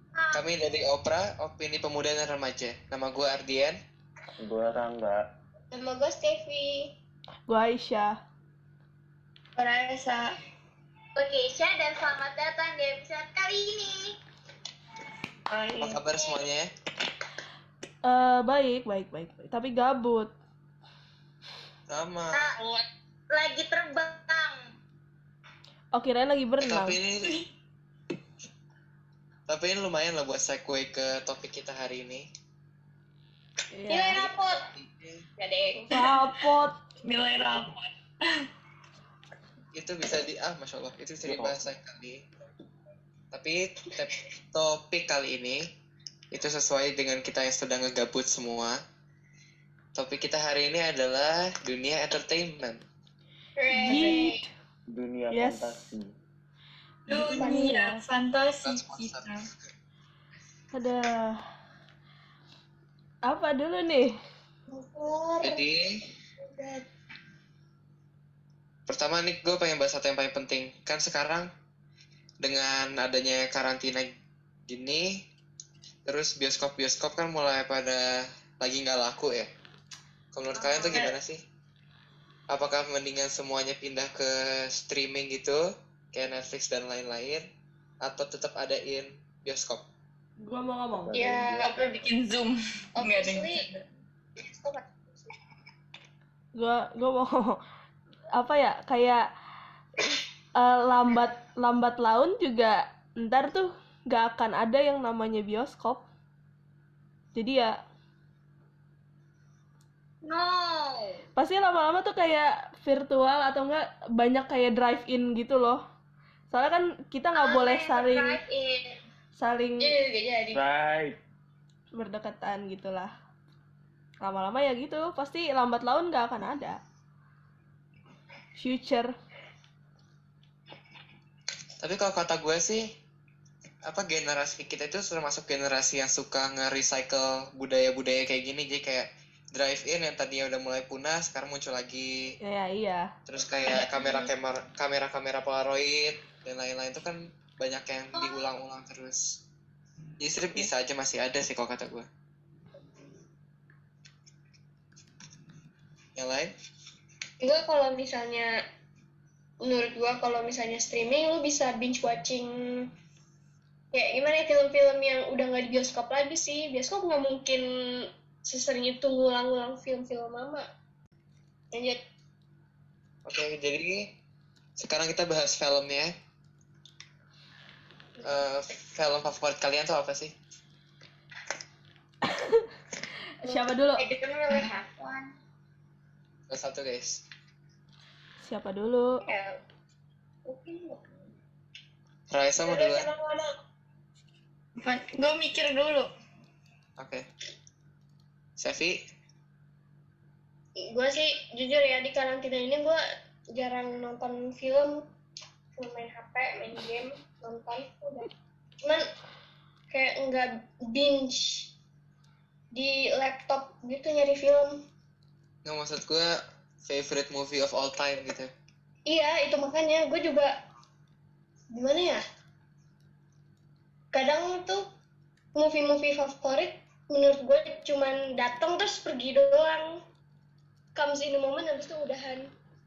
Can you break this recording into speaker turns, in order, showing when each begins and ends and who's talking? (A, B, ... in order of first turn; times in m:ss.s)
0:00.1-0:00.4 A
0:00.3-0:03.8 B
0:04.4-0:05.2 C
0:05.7-0:06.9 D
0:07.5-0:08.2 E
0:09.6-0:10.3 F
0:11.2-0:14.2 A
0:15.5-0:16.4 D
0:15.8-0:16.7 B
0:18.0-0:20.3 E
0:21.9-0:22.5 B
0:22.3-0:22.6 A
0:22.6-0:22.8 F
0:23.3-0:24.6 A
0:25.9-0:27.0 E
0:26.6-0:27.3 B
0:29.5-0:32.3 B
0:33.7-0:34.2 E
0:33.9-0:34.7 D
0:34.1-0:35.2 B
0:35.4-0:36.1 D
0:35.9-0:36.8 E
0:37.0-0:38.5 F
0:39.7-0:42.2 B
0:41.3-0:41.6 C
0:43.3-0:45.6 B
0:46.3-0:48.8 B
0:49.9-0:52.8 B
0:53.6-0:54.4 D
0:53.6-0:54.4 F
0:53.8-0:54.5 E
0:54.9-0:56.1 C
0:55.3-0:55.9 E
0:57.1-0:59.5 F
0:57.1-0:57.9 D
0:58.6-0:59.3 B
1:00.7-1:01.4 E
1:03.2-1:04.2 E
1:04.7-1:05.6 D
1:05.4-1:06.1 B
1:06.4-1:06.8 D
1:08.9-1:11.5 B
1:12.4-1:14.1 B
1:14.7-1:15.2 B
1:16.0-1:19.5 B
1:20.3-1:21.4 B
1:20.6-1:21.1 F
1:22.5-1:27.5 B
1:28.0-1:29.8 B
1:30.4-1:31.2 E
1:31.0-1:31.7 C
1:31.2-1:31.9 D
1:31.2-1:33.8 F
1:33.0-1:33.7 D
1:34.4-1:35.3 D
1:36.5-1:37.6 E
1:38.3-1:39.3 E
1:40.6-1:46.0 E
1:47.3-1:47.8 E
1:50.2-1:51.2 A
1:51.4-1:55.8 E
1:56.5-1:58.4 E
1:57.3-1:59.0 A
1:59.4-2:00.0 E
1:59.8-2:00.6 D
2:00.5-2:01.2 C
2:01.9-2:03.1 E
2:04.2-2:06.8 E
2:08.5-2:09.1 E
2:11.8-2:12.9 B
2:13.8-2:22.4 B
2:22.4-2:23.1 E
2:23.2-2:29.4 B
2:28.2-2:28.4 A
2:30.2-2:32.1 B
2:36.2-2:36.5 B
2:37.4-2:38.5 D
2:39.6-2:42.9 D
2:43.9-2:50.6 D
2:51.7-2:52.0 D
2:53.2-2:54.1 B
2:54.8-2:56.1 B
2:58.2-3:00.3 B
3:02.2-3:02.7 E
3:03.4-3:04.0 E
3:04.0-3:05.3 A
3:06.5-3:07.2 B
3:08.4-3:09.2 E
3:09.3-3:09.6 A
3:10.5-3:11.0 A
3:12.3-3:13.1 B
3:12.6-3:13.5 D
3:14.8-3:16.1 F
3:17.0-3:17.2 B
3:18.6-3:19.0 B
3:20.8-3:25.1 D
3:25.8-3:29.1 D
3:29.9-3:31.7 D
3:32.7-3:34.8 D
3:35.6-3:38.5 B
3:39.0-3:40.6 D
3:41.7-3:42.2 D
3:44.1-3:44.9 D
3:45.5-3:50.0 D
3:50.9-3:52.5 D